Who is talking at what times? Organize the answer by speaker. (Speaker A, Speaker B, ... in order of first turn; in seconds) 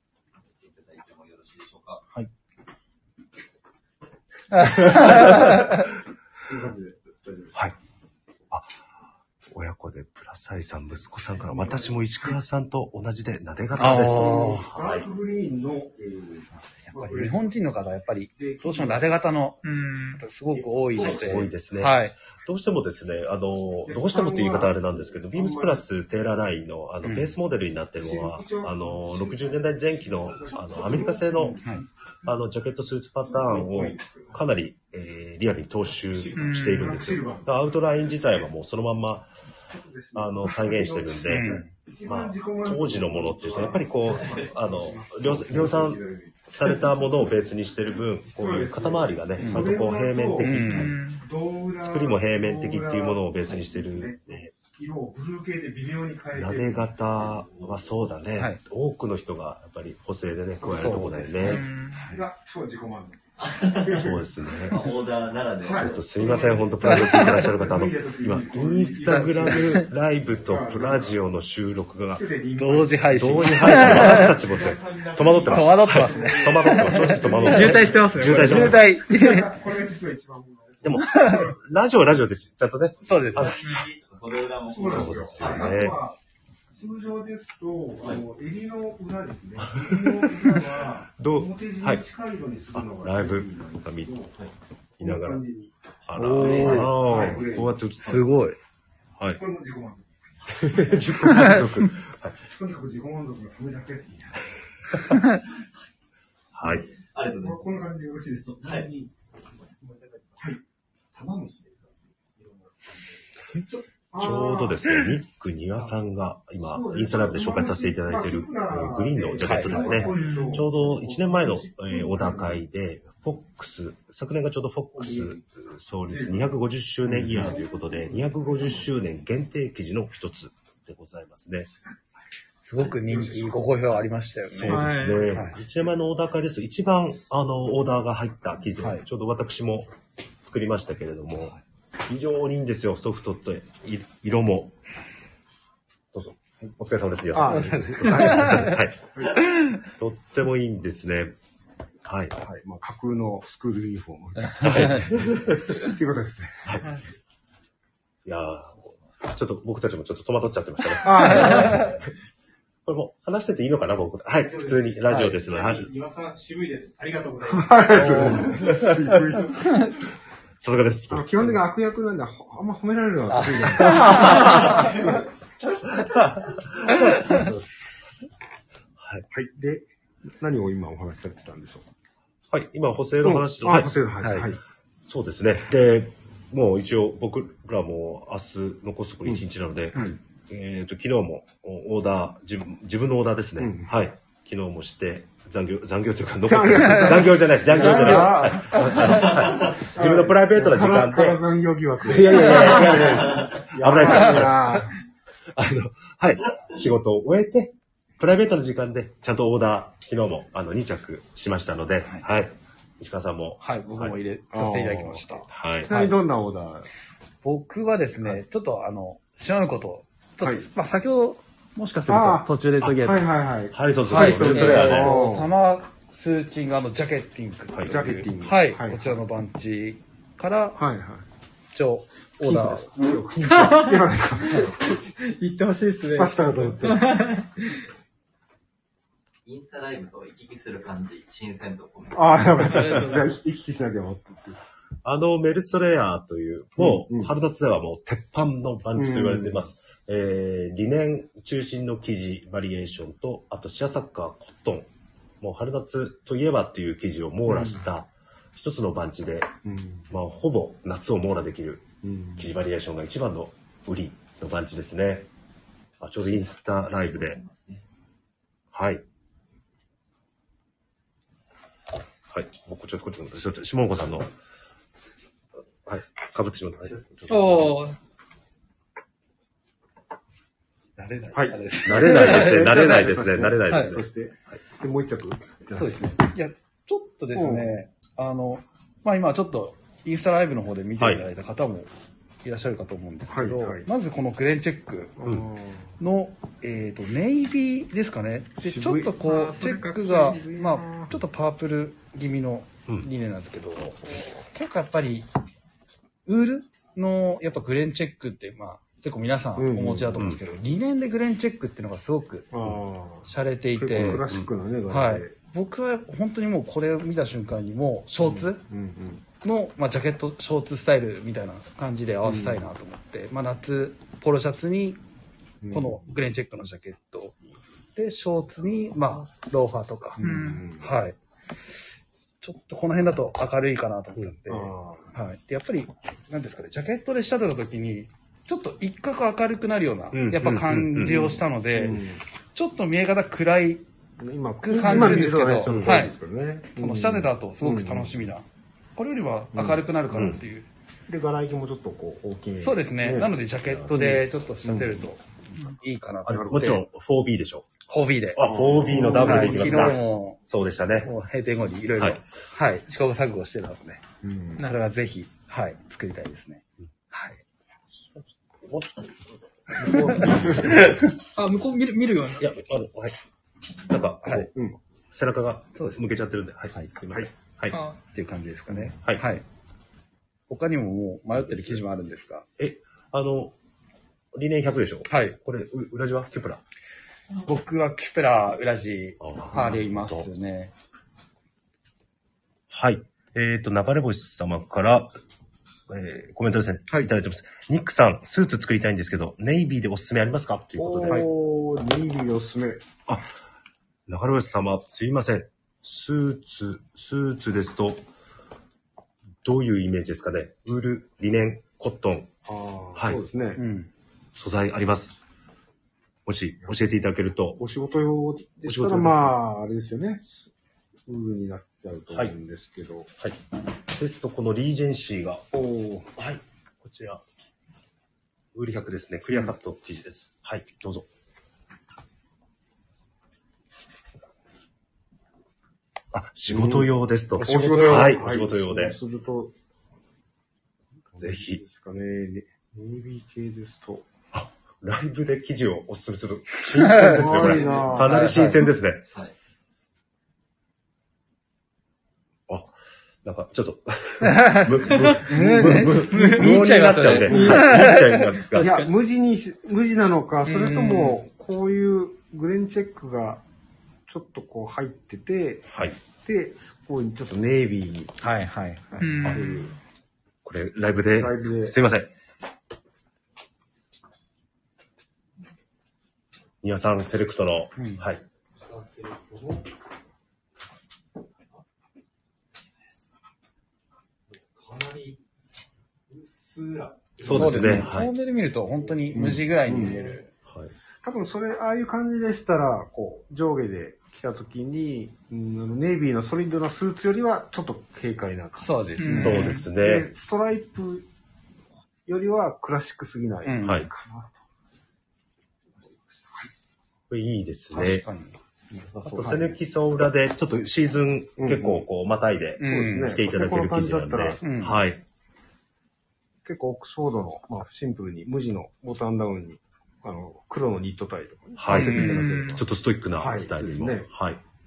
Speaker A: 0.3-2.0, 20.9-21.4, 63.4-67.2, 73.6-76.0, 83.1-85.9, 107.1-107.7, 108.6-108.9, 239.4-242.9, 266.8-267.8
Speaker B: 4.5-5.6, 13.8-14.7, 16.5-19.6, 20.1-22.1, 27.0-27.3, 41.3-41.7, 49.4-49.7, 50.4-51.0, 60.7-62.2, 66.9-67.2, 69.1-69.9, 72.6-74.4, 75.4-77.5, 78.3-79.5, 81.0-81.5, 83.0-83.6, 96.2-97.0, 98.0-98.6, 119.4-119.9, 132.6-135.6, 138.8-139.0, 147.4-148.8, 161.4-161.8, 165.1-165.4, 167.9-168.4, 173.3-175.1, 184.2-184.5, 196.9-197.2, 197.7-199.1, 213.6-216.1, 217.4-223.3, 224.1-230.8, 231.7-233.0, 281.0-283.1, 283.6-283.9, 285.7-291.9, 292.4-295.2, 296.0-305.3, 306.2-314.3, 314.9-318.6, 319.4-325.0, 325.7-327.4, 327.9-331.2, 332.4-343.8, 344.6-346.1, 346.7-350.7, 352.6-356.8, 357.9-360.4, 361.0-364.0, 364.6-367.4, 369.8-370.2, 375.7-376.0, 376.7-377.1, 378.1-379.4, 380.5-382.5, 385.1-385.4, 387.4-390.7, 413.6-413.9, 437.4-438.2, 446.7-448.7, 454.3-458.5, 460.4-461.2, 468.2-469.6, 477.8-478.0, 487.3-490.3, 498.6-499.6, 503.4-503.9, 507.7-509.5, 512.6-513.2, 514.4-514.8, 521.7-522.2
Speaker C: 4.6-5.8, 8.5-8.8, 9.5-15.1, 21.1-31.6, 32.2-39.3, 40.1-51.0, 51.8-54.5, 56.3-61.7, 63.9-64.9, 65.7-72.2, 73.1-79.0, 80.8-83.8, 84.8-86.0, 89.7-92.0, 92.7-94.2, 95.0-95.4, 96.1-98.3, 100.5-102.4, 106.5-106.8, 114.1-131.7, 134.4-144.8, 146.1-151.3, 152.0-152.3, 154.6-155.9, 158.2-162.0, 162.8-165.9, 168.0-169.2, 170.6-171.6, 174.0-174.7, 176.1-177.0, 179.0-179.2, 182.5-183.9, 185.1-201.4, 202.0-204.8, 205.5-214.1, 215.5-215.9, 222.8-223.1, 223.7-225.2, 227.7-228.0, 245.0-254.9, 255.4-259.5, 260.1-265.3, 266.0-267.4, 268.7-269.0, 272.3-274.3, 275.8-277.8, 281.8-284.6, 291.0-291.2, 314.2-314.5, 340.1-341.3, 344.9-345.9, 350.1-350.4, 356.3-357.7, 358.3-361.1, 368.1-371.2, 372.4-373.2, 373.9-374.5, 375.1-377.8, 378.7-379.2, 381.3-381.8, 382.6-383.5, 384.3-386.6, 389.2-390.3, 392.7-395.1, 395.9-401.2, 403.1-403.3, 404.1-408.0, 409.4-412.3, 414.3-415.2, 416.2-417.6, 418.6-419.4, 423.9-425.4, 426.2-427.2, 428.5-431.1, 436.1-438.9, 441.2-441.6, 444.3-449.1, 452.5-452.7, 453.2-458.8, 465.7-465.9, 470.4-472.1, 476.6-478.2, 487.2-488.1, 490.5-490.7, 499.1-500.1, 503.6-503.9, 507.1-508.1, 509.1-515.0, 521.6-524.4
Speaker D: 5.0-5.4, 6.4-7.5, 11.5-11.9, 13.8-17.6, 18.3-19.1, 20.5-21.1, 23.9-25.8, 28.0-31.7, 33.2-34.4, 36.7-37.5, 39.7-47.3, 48.3-57.9, 60.6-64.2, 65.6-69.8, 70.3-71.2, 72.1-74.2, 75.9-81.5, 84.7-86.2, 86.7-94.3, 95.0-95.7, 96.2-97.8, 99.3-101.6, 102.5-105.0, 107.4-108.5, 113.5-115.0, 116.7-122.6, 125.0-125.4, 126.1-126.5, 127.1-128.8, 133.1-133.6, 147.3-148.6, 152.4-156.8, 161.0-162.0, 167.5-169.9, 171.1-175.2, 176.9-178.2, 179.3-179.8, 180.4-181.9, 183.2-184.6, 189.2-190.2, 193.6-193.9, 196.4-204.9, 214.5-216.8, 220.4-220.6, 222.1-225.5, 227.8-229.2, 230.8-231.2, 232.4-235.0, 236.0-237.3, 242.1-244.6, 246.8-247.3, 248.9-249.7, 257.5-257.8, 259.6-260.1, 262.0-262.5, 281.3-286.1, 287.3-287.7, 293.3-293.9, 295.2-295.9, 298.6-301.2, 309.6-310.3, 312.5-315.3, 318.2-319.2, 322.2-322.7, 325.6-326.1, 330.2-330.9, 334.5-335.1, 341.0-342.2, 344.2-348.2, 349.5-350.2, 351.1-353.3, 353.9-355.0, 358.4-360.0, 364.2-364.6, 369.9-370.9, 374.5-374.8, 376.9-377.3, 400.8-402.8, 412.4-413.6, 417.6-420.5, 421.1-423.1, 425.5-426.2, 436.5-439.5, 441.1-444.1, 446.9-448.4, 455.2-455.9, 457.1-457.8, 458.6-463.4, 464.1-468.1, 469.2-469.7, 471.1-471.8, 489.1-489.9, 491.0-501.1, 502.1-504.4, 508.8-509.4, 511.4-511.9, 512.6-514.5, 516.4-524.1
Speaker E: 19.6-20.2, 36.4-36.8, 50.6-51.3, 61.4-62.0, 77.4-78.8, 83.6-83.9, 134.6-135.4, 233.5-234.0, 234.5-237.8, 242.6-243.3, 277.3-278.0, 299.2-300.4, 330.2-330.7, 371.3-372.5, 377.7-378.0, 456.1-456.5, 458.6-458.9, 469.0-469.8, 499.0-499.7, 521.8-522.6
Speaker F: 36.0-37.2, 106.6-107.2, 108.4-110.6, 111.1-113.3, 119.7-120.6, 164.4-168.7, 174.7-175.2, 478.6-479.7, 481.4-481.6, 482.8-483.1, 484.3-485.2, 486.1-490.3, 505.8-506.5